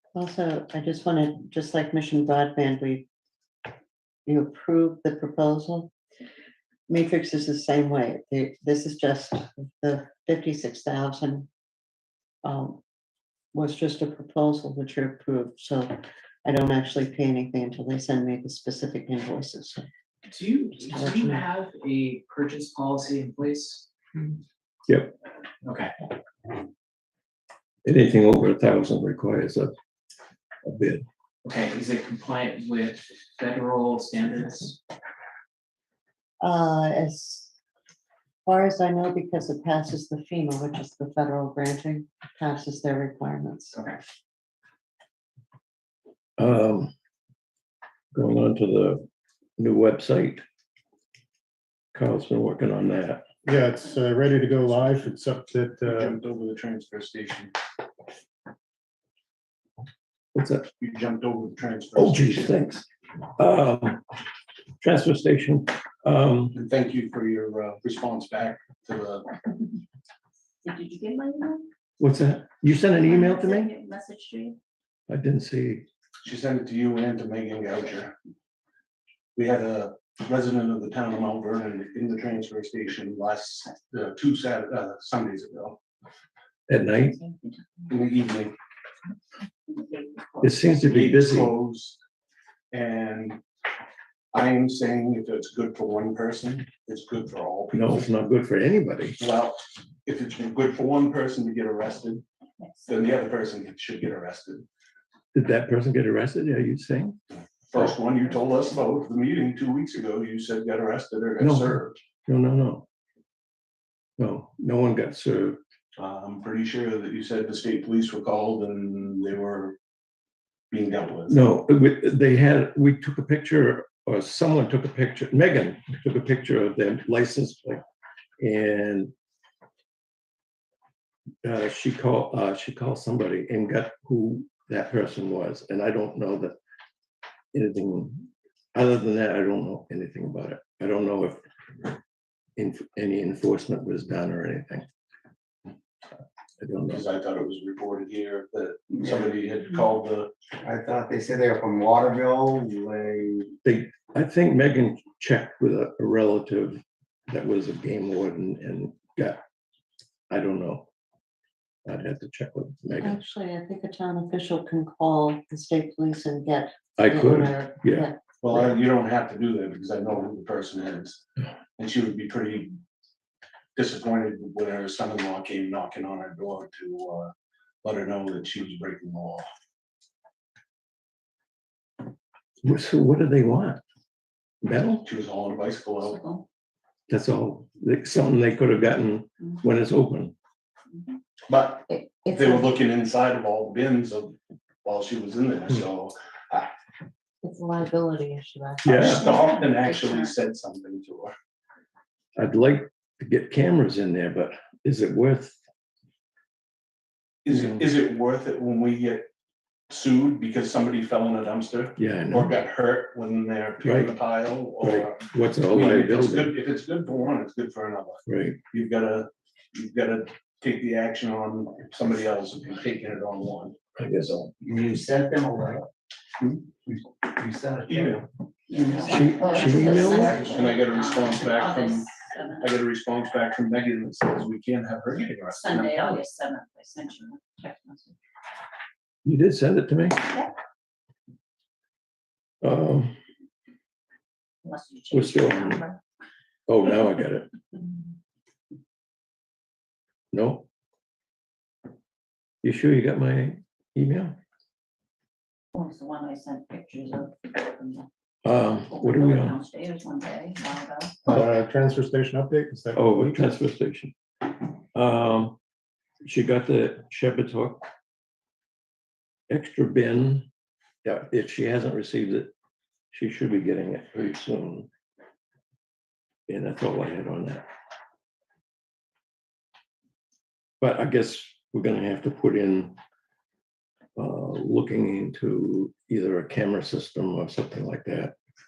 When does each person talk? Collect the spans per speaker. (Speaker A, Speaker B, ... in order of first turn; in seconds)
Speaker A: 0.1-3.1, 4.2-5.9, 6.9-11.5, 12.4-12.8, 13.5-19.9, 20.9-21.4, 36.4-37.5, 38.5-43.8, 163.0-168.2, 191.9-192.7, 197.4-200.3, 229.3-230.1
Speaker B: 20.3-23.9, 25.6-25.9, 31.4-34.8
Speaker C: 24.9-25.1, 27.8-29.7, 30.6-31.0, 46.4-46.9, 48.1-49.0, 49.6-50.4, 51.9-53.2, 60.3-60.7, 62.0-62.8, 63.4-64.0, 64.8-66.6, 72.0-73.7, 75.1-75.9, 86.7-87.2, 90.4-91.5, 97.7-99.2, 105.3-107.2, 111.4-112.8, 114.2-115.6, 121.3-127.8, 128.4-129.1, 131.4-136.6, 137.5-141.4, 142.6-144.8, 146.6-147.0, 153.6-159.4, 160.3-160.9, 161.8-163.2, 167.0-168.1, 182.6-183.8, 184.6-185.1, 187.1-190.3, 198.9-199.2, 202.3-205.6, 212.0-212.5, 213.8-214.1, 214.8-216.5, 218.2-218.6, 223.9-224.5, 229.0-230.4, 239.2-240.2, 242.6-243.2, 245.1-245.8, 246.7-247.5, 250.3-250.7, 252.6-254.4, 258.4-259.6, 262.9-264.1, 264.9-265.6, 266.2-267.9, 269.5-270.5, 271.0-272.5, 273.1-274.9, 276.5-277.6, 280.8-283.0, 284.1-288.3
Speaker D: 53.5-56.2, 261.2-263.4
Speaker E: 55.9-57.5, 60.8-62.5, 66.5-69.3, 76.2-78.1, 79.3-85.8, 87.9-88.5, 90.8-92.0, 92.7-93.4, 94.3-98.0, 99.2-102.2, 102.8-104.7, 107.7-112.0, 116.0-119.8, 120.7-121.4, 146.9-150.3, 168.4-171.2, 171.8-172.8, 173.7-179.5, 185.0-186.2, 191.5-196.7, 198.8-201.3, 207.4-209.3, 209.9-223.8, 227.9-228.2, 230.1-232.1, 232.6-236.2
Speaker F: 70.6-71.7, 73.0-74.6, 87.2-87.6, 186.0-186.4, 228.7-232.7, 235.5-238.1, 240.2-240.5, 244.6-246.0, 255.7-258.1, 258.6-261.2
Speaker G: 150.6-153.5, 224.6-225.8, 226.9-228.2